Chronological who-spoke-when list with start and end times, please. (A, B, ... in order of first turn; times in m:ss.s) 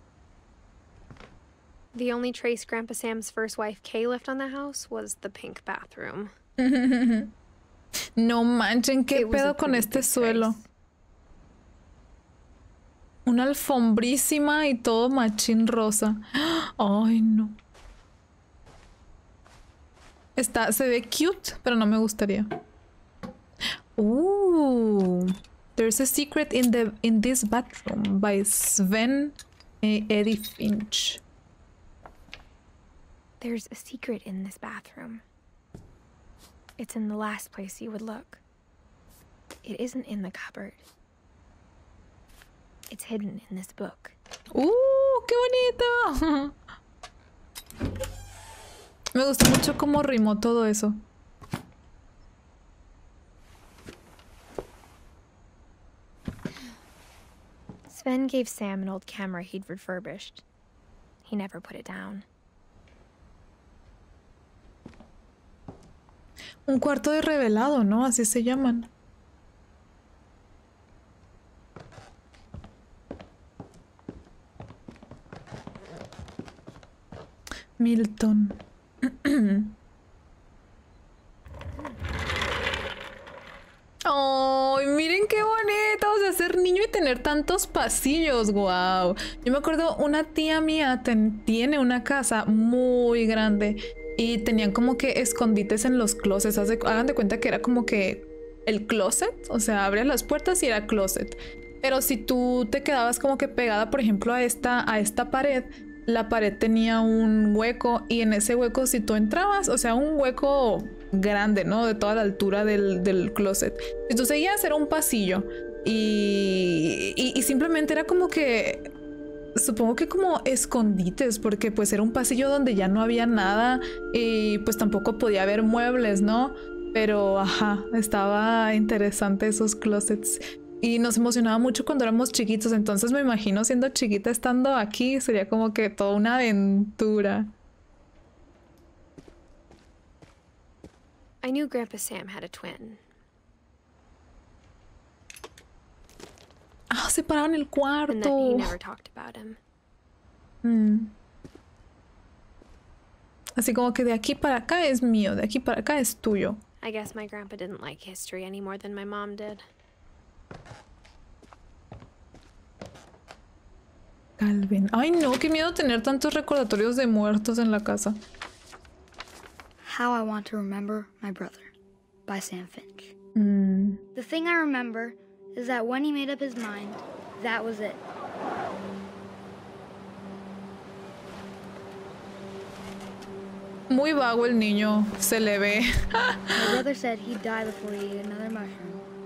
0:01.9-0:06.3 A
0:06.6-0:07.3 B
0:08.2-0:10.6 B
0:09.1-0:10.6 A
0:13.2-0:17.6 B
0:20.4-0:22.5 B
0:24.0-0:31.2 B
0:33.4-0:35.2 A
0:36.8-0:38.4 A
0:39.6-0:40.8 A
0:42.9-0:44.1 A
0:44.5-0:46.6 B
0:49.1-0:51.0 B
0:57.9-1:00.4 A
1:01.2-1:02.2 A
1:06.6-1:08.9 B
1:17.8-1:19.7 B
1:24.0-1:58.9 B
1:59.6-2:17.5 B
2:21.4-2:23.0 A
2:26.9-2:28.7 B
2:28.1-2:29.6 A
2:30.6-2:31.1 B
2:33.6-2:36.6 B
2:36.8-2:39.6 A
2:44.4-2:48.2 B
2:49.8-2:51.7 C
2:52.3-2:53.1 C
2:53.4-2:54.0 B
2:54.1-2:58.0 C
3:03.9-3:06.6 B
3:06.5-3:09.0 C